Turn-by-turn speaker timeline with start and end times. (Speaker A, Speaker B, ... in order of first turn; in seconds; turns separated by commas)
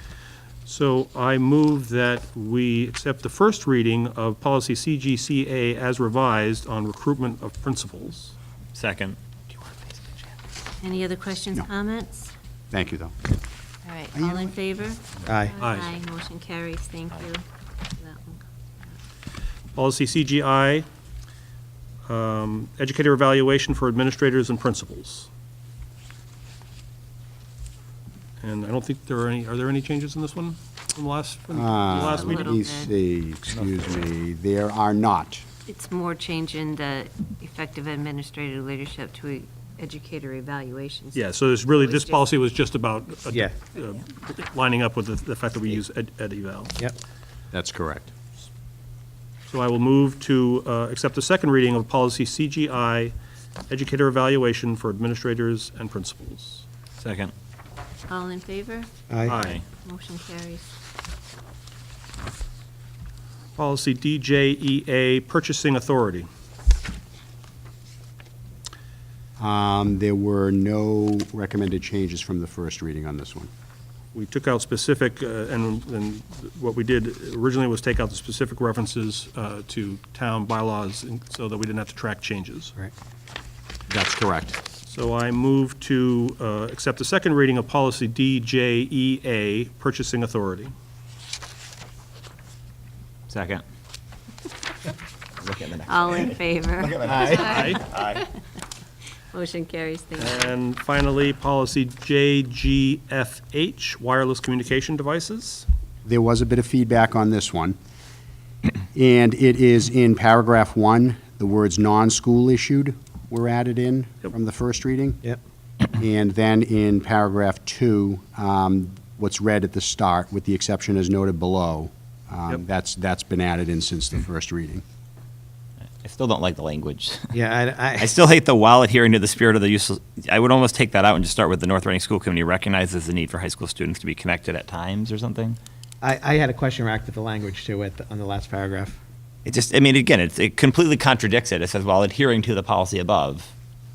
Speaker A: 0.7-8.3, Speaker B: 8.7-9.2, Speaker C: 10.8-12.3, Speaker D: 12.7-13.2, Speaker C: 13.8-17.4, Speaker D: 14.2-14.5, Speaker E: 15.3-15.6, Speaker A: 15.6-15.9, Speaker C: 18.0-18.4, Speaker A: 19.8-20.9, Speaker A: 22.1-25.3, Speaker A: 28.4-32.6, Speaker D: 31.5-35.5, Speaker C: 31.9-32.9, Speaker C: 35.7-42.3, Speaker A: 41.1-46.8, Speaker D: 47.5-48.1, Speaker A: 49.5-53.1, Speaker A: 53.7-56.6, Speaker B: 57.0-57.3, Speaker C: 58.1-60.6, Speaker E: 59.1-59.4, Speaker A: 59.3-59.6, Speaker B: 59.3-59.6, Speaker A: 63.6-66.3, Speaker D: 69.4-73.5, Speaker A: 74.1-82.8, Speaker D: 83.9-84.6, Speaker A: 84.9-90.7, Speaker B: 93.3-93.6, Speaker B: 95.4-98.3, Speaker C: 95.9-98.3, Speaker E: 97.0-97.4, Speaker A: 97.3-97.8, Speaker C: 99.3-100.6, Speaker A: 100.2-105.7, Speaker D: 106.0-107.8, Speaker D: 108.9-115.2, Speaker D: 115.9-124.8, Speaker B: 126.0-127.3, Speaker E: 127.3-128.2, Speaker B: 128.0-135.6, Speaker E: 136.0-139.0, Speaker B: 139.4-143.5